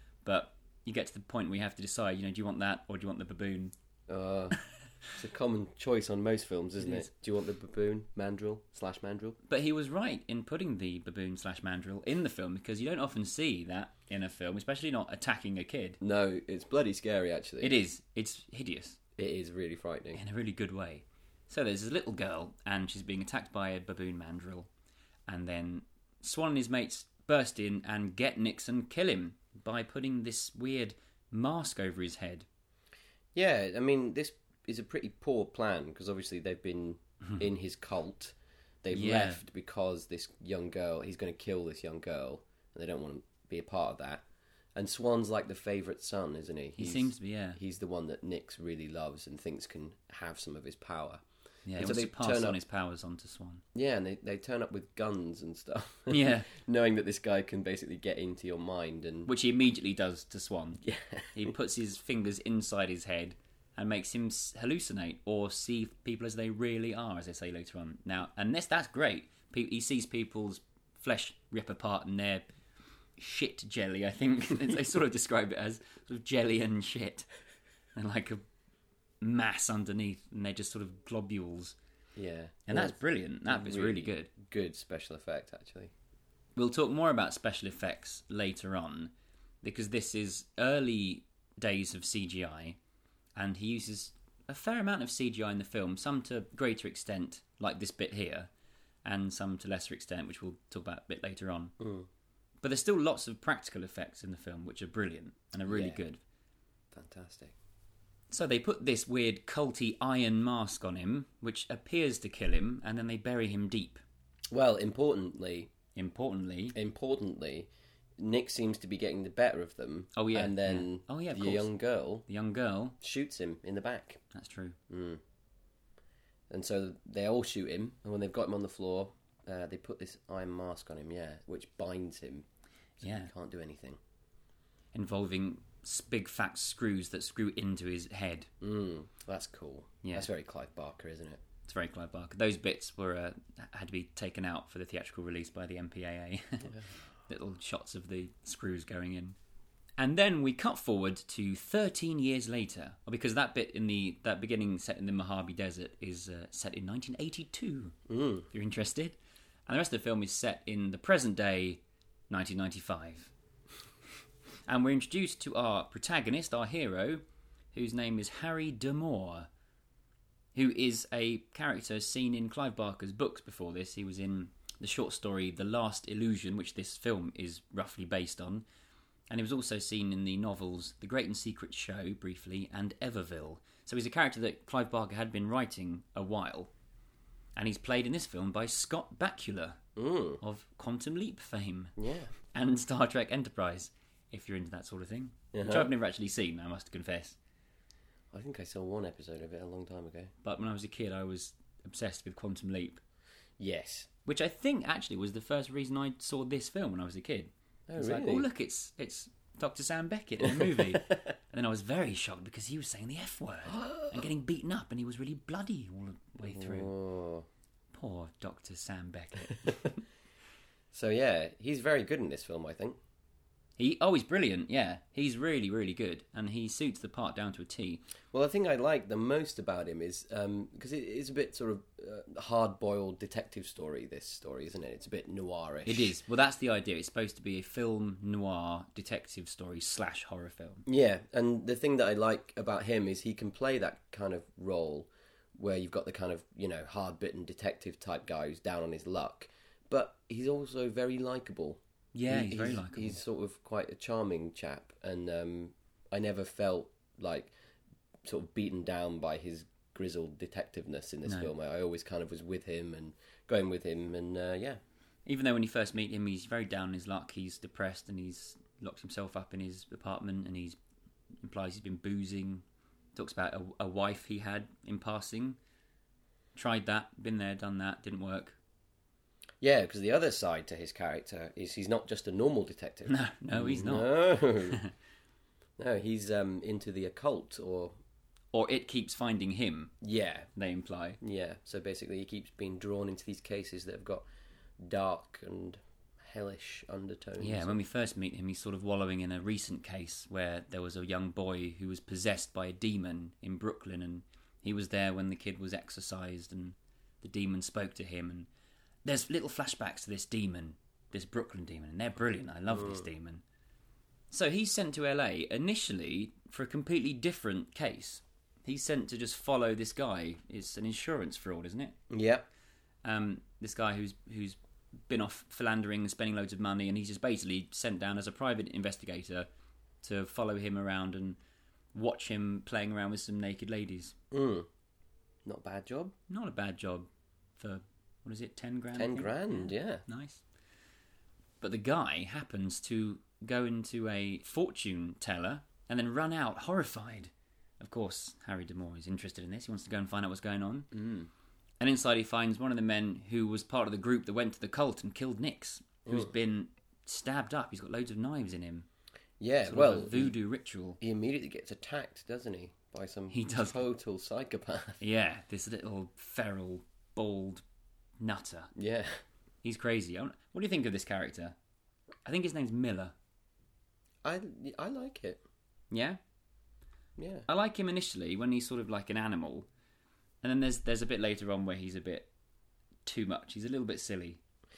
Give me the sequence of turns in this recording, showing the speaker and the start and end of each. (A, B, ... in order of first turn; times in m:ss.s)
0:00.2-0:03.7 A
0:04.1-0:04.6 B
0:05.1-0:09.4 B
0:09.5-0:16.0 A
0:16.0-0:17.7 B
0:17.6-0:19.0 A
0:19.2-0:20.2 B
0:20.1-0:24.7 A
0:25.3-0:32.5 A
0:33.3-0:51.2 B
0:38.9-0:39.4 A
0:46.8-0:47.6 A
0:51.6-0:53.6 A
0:51.8-0:52.6 B
0:53.7-0:59.3 B
0:56.1-0:56.5 A
0:59.3-1:12.5 A
1:00.8-1:01.5 B
1:13.2-1:17.3 A
1:18.0-1:18.4 A
1:19.2-1:21.8 A
1:22.2-1:25.9 B
1:22.7-1:24.3 A
1:26.6-1:32.8 A
1:33.4-1:38.5 A
1:39.0-1:41.8 A
1:41.8-1:42.1 B
1:42.6-1:46.2 A
1:45.7-1:46.0 B
1:46.9-1:47.6 B
1:48.3-1:54.0 A
1:54.5-1:55.7 B
1:56.0-1:56.8 A
1:56.8-2:02.3 B
2:00.2-2:01.7 A
2:02.3-2:03.0 A
2:03.0-2:04.2 B
2:04.3-2:04.8 A
2:04.9-2:05.2 B
2:06.5-2:12.5 B
2:13.0-2:14.0 B
2:13.0-2:13.3 A
2:14.9-2:18.5 A
2:18.6-2:21.4 B
2:20.0-2:20.3 A
2:21.7-2:29.4 A
2:30.0-2:38.0 A
2:38.1-2:38.5 B
2:38.5-2:43.3 A
2:44.7-2:49.5 A
2:50.6-2:58.6 A
2:59.3-3:06.7 A
3:07.6-3:09.8 A
3:10.0-3:10.4 B
3:10.4-3:12.0 A
3:12.0-3:12.3 B
3:12.5-3:17.4 A
3:15.5-3:15.9 B
3:18.3-3:20.3 B
3:20.4-3:23.0 A
3:23.6-3:24.1 B
3:24.2-3:36.9 A
3:27.9-3:28.5 B
3:30.4-3:31.2 B
3:36.5-3:37.5 B
3:37.9-3:40.0 A
3:40.9-3:43.0 B
3:43.8-3:48.0 A
3:48.3-3:56.2 B
3:55.8-4:00.8 A
4:00.9-4:17.5 B
4:12.1-4:13.2 A
4:18.2-4:24.8 B
4:21.3-4:21.5 A
4:25.3-4:30.8 A
4:31.4-4:32.6 A
4:33.1-4:35.6 A
4:36.6-4:38.6 A
4:39.6-4:44.8 B
4:43.1-4:44.9 A
4:45.8-4:47.9 B
4:48.5-4:49.9 A
4:50.0-4:50.5 B
4:50.6-4:51.2 A
4:51.2-4:54.3 B
4:54.8-4:57.8 B
4:57.4-5:08.5 A
5:09.0-5:13.4 A
5:12.7-5:13.1 B
5:14.3-5:22.0 A
5:22.1-5:22.4 B
5:23.0-5:29.5 A
5:30.0-5:31.4 A
5:31.9-5:34.2 A
5:34.3-5:34.7 B
5:35.4-5:36.2 B
5:36.3-5:40.4 A
5:39.0-5:40.0 B
5:41.6-5:51.0 A
5:50.9-5:51.3 B
5:51.8-5:58.9 A
5:56.1-5:56.3 B
5:59.4-6:00.4 B
5:59.6-6:01.0 A
6:01.0-6:05.0 B
6:03.3-6:03.8 A
6:05.0-6:07.6 A
6:08.2-6:08.7 A
6:08.8-6:09.2 B
6:09.6-6:11.6 A
6:12.3-6:13.1 A
6:14.2-6:15.4 B
6:15.9-6:16.2 A
6:17.2-6:17.5 B
6:17.5-6:19.7 A
6:20.4-6:22.3 A
6:23.1-6:24.4 A